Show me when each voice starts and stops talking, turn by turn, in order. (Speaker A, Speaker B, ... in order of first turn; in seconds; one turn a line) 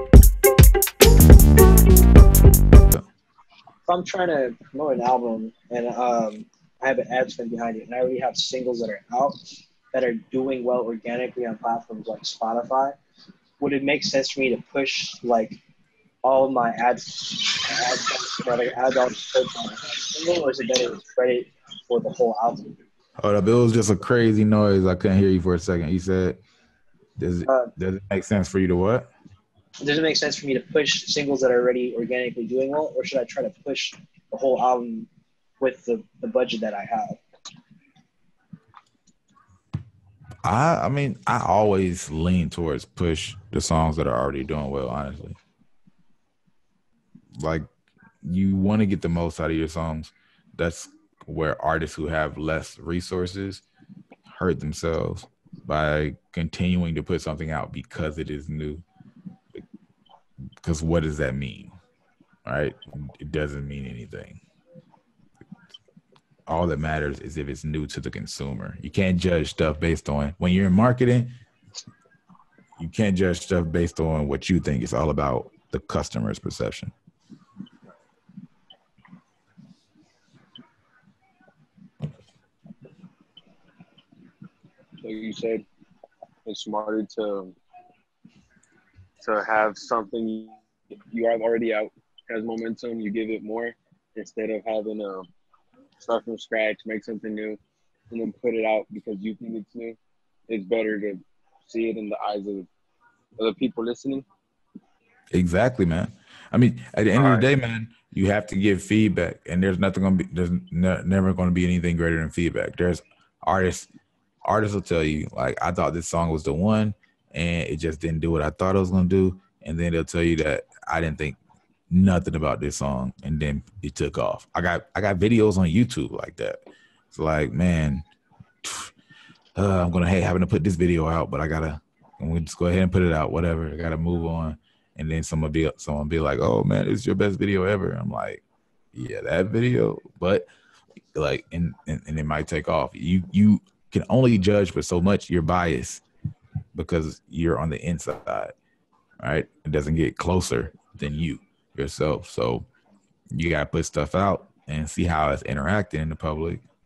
Speaker A: 3.9-13.0
Speaker A: 13.6-15.6
Speaker A: 16.2-22.8
Speaker B: 23.2-26.4
Speaker B: 27.2-29.1
Speaker A: 27.5-27.7
Speaker A: 29.8-35.1
Speaker A: 35.6-37.2
Speaker B: 40.4-45.4
Speaker B: 47.4-47.7
Speaker B: 48.2-53.6
Speaker B: 54.3-58.9
Speaker B: 60.6-61.8
Speaker B: 62.5-64.4
Speaker B: 66.5-71.3
Speaker B: 72.8-76.9
Speaker C: 85.0-85.7
Speaker C: 86.5-87.5
Speaker C: 89.2-90.5
Speaker C: 91.1-95.3
Speaker C: 96.0-97.6
Speaker C: 98.1-100.0
Speaker C: 100.5-102.7
Speaker C: 103.4-104.3
Speaker B: 105.3-113.9
Speaker C: 107.1-107.5
Speaker B: 114.5-121.4
Speaker B: 121.9-128.1
Speaker B: 128.6-128.9
Speaker B: 129.6-138.4
Speaker B: 138.9-140.4
Speaker B: 141.2-146.0
Speaker B: 146.8-148.5
Speaker B: 149.2-152.7
Speaker B: 153.3-156.6